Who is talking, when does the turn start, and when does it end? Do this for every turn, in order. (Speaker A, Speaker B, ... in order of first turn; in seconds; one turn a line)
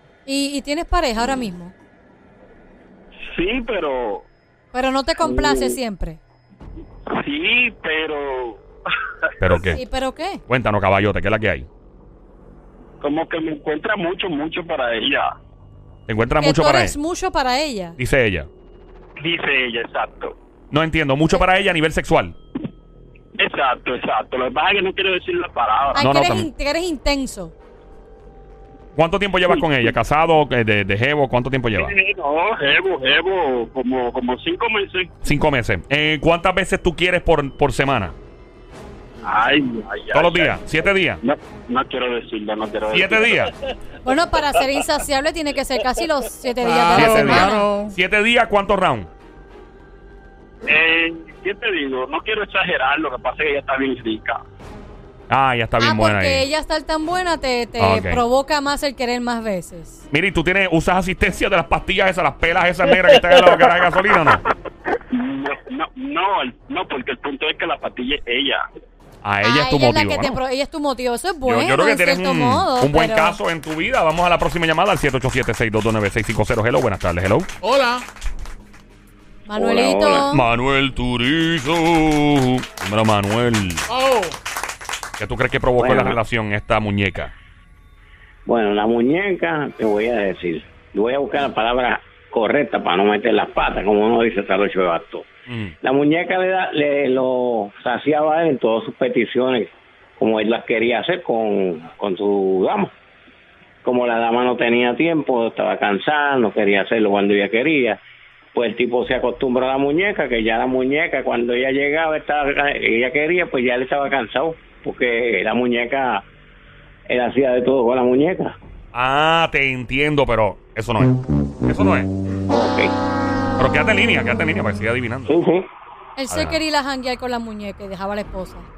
Speaker A: 0.3-1.7
Speaker B: 3.2-4.3
Speaker A: 4.7-6.2
Speaker B: 7.1-8.6
Speaker C: 9.4-9.8
Speaker A: 9.8-10.4
Speaker C: 10.5-11.7
Speaker B: 13.0-15.3
Speaker C: 16.1-16.9
Speaker A: 16.4-18.0
Speaker C: 18.0-18.5
Speaker B: 19.2-20.3
Speaker C: 20.7-22.4
Speaker B: 23.4-26.0
Speaker C: 25.9-26.5
Speaker A: 25.9-27.5
Speaker C: 28.9-31.9
Speaker B: 31.8-35.1
Speaker C: 35.2-38.2
Speaker B: 39.2-40.5
Speaker C: 40.1-41.2
Speaker B: 41.2-43.5
Speaker C: 42.9-43.5
Speaker A: 44.0-47.7
Speaker D: 46.6-48.0
Speaker C: 47.0-49.1
Speaker B: 50.7-54.4
Speaker C: 55.3-56.4
Speaker A: 55.8-60.0
Speaker C: 57.8-58.2
Speaker C: 60.1-64.4
Speaker B: 63.1-63.7
Speaker B: 65.1-68.6
Speaker C: 69.2-70.4
Speaker A: 69.4-73.4
Speaker C: 71.5-77.5
Speaker D: 77.6-78.1
Speaker A: 79.5-80.4
Speaker E: 79.5-80.3
Speaker C: 80.3-83.9
Speaker D: 83.9-84.4
Speaker C: 85.2-87.3
Speaker E: 85.8-86.2
Speaker E: 88.5-95.3
Speaker C: 95.5-95.8
Speaker E: 95.8-102.9
Speaker E: 103.8-108.0
Speaker E: 108.5-116.3
Speaker E: 117.1-118.6
Speaker C: 118.9-122.1
Speaker E: 122.5-122.9
Speaker C: 123.6-125.3
Speaker E: 125.3-125.7
Speaker A: 126.2-128.7
Speaker C: 126.3-126.6